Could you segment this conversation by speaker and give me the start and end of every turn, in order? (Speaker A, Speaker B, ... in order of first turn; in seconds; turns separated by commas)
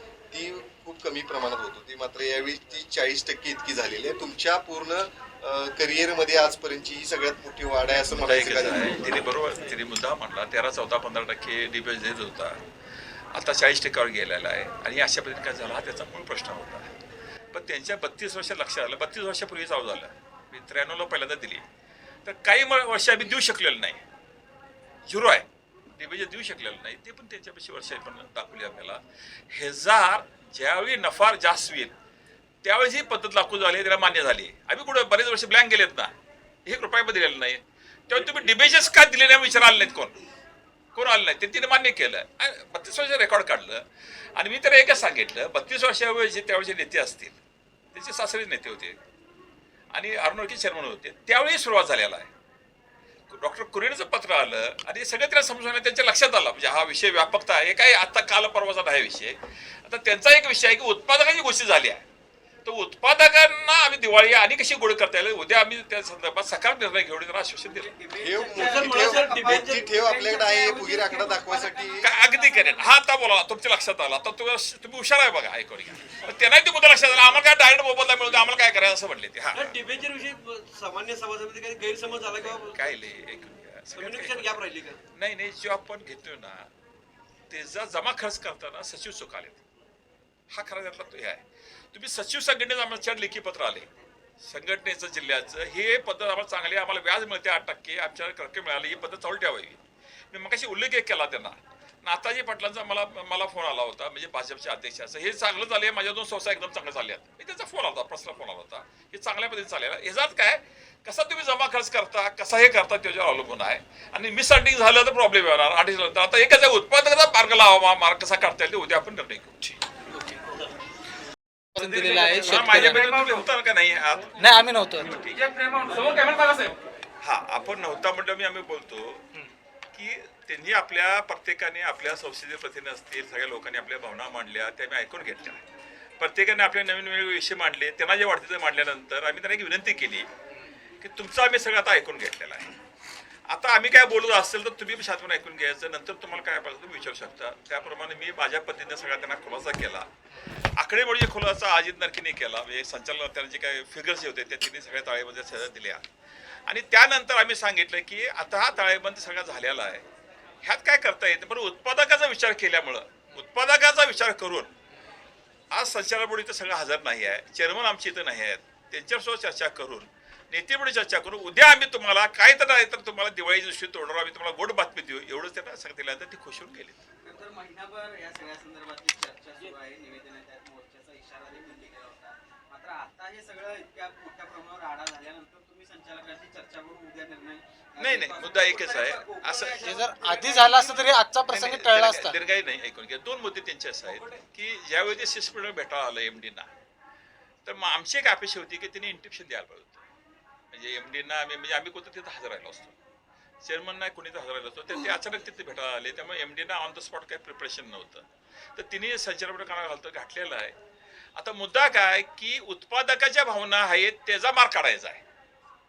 Speaker A: 0.3-9.2, Speaker B: 8.0-12.6, Speaker B: 13.3-16.9, Speaker B: 17.5-21.6, Speaker B: 22.2-24.0, Speaker B: 25.1-29.0, Speaker B: 29.5-31.9, Speaker B: 32.6-36.1, Speaker B: 36.6-40.2, Speaker B: 40.9-43.8, Speaker B: 44.4-47.4, Speaker B: 47.9-49.0, Speaker B: 49.9-52.3, Speaker B: 53.3-62.0, Speaker B: 62.6-67.9, Speaker C: 68.0-69.6, Speaker A: 68.2-72.1, Speaker D: 68.5-69.6, Speaker C: 70.3-71.6, Speaker B: 72.0-79.8, Speaker D: 79.5-82.7, Speaker B: 82.4-84.5, Speaker D: 84.0-84.9, Speaker B: 85.2-86.7, Speaker B: 87.5-89.6, Speaker B: 90.5-91.4, Speaker B: 91.9-93.9, Speaker B: 94.4-99.8, Speaker B: 100.3-119.6, Speaker E: 121.7-123.4, Speaker B: 121.8-124.4, Speaker E: 124.4-125.2, Speaker B: 125.0-126.4, Speaker B: 127.2-129.2, Speaker B: 129.9-135.6, Speaker B: 136.2-140.3, Speaker B: 141.0-142.7, Speaker B: 143.5-150.1, Speaker B: 150.8-156.0, Speaker B: 156.7-160.0, Speaker B: 160.6-164.7, Speaker B: 165.7-177.0, Speaker C: 177.2-191.1, Speaker B: 188.0-189.8, Speaker E: 189.7-192.4, Speaker B: 191.4-196.7, Speaker B: 197.6-200.0, Speaker B: 200.7-202.9, Speaker B: 203.6-210.7, Speaker B: 211.3-215.2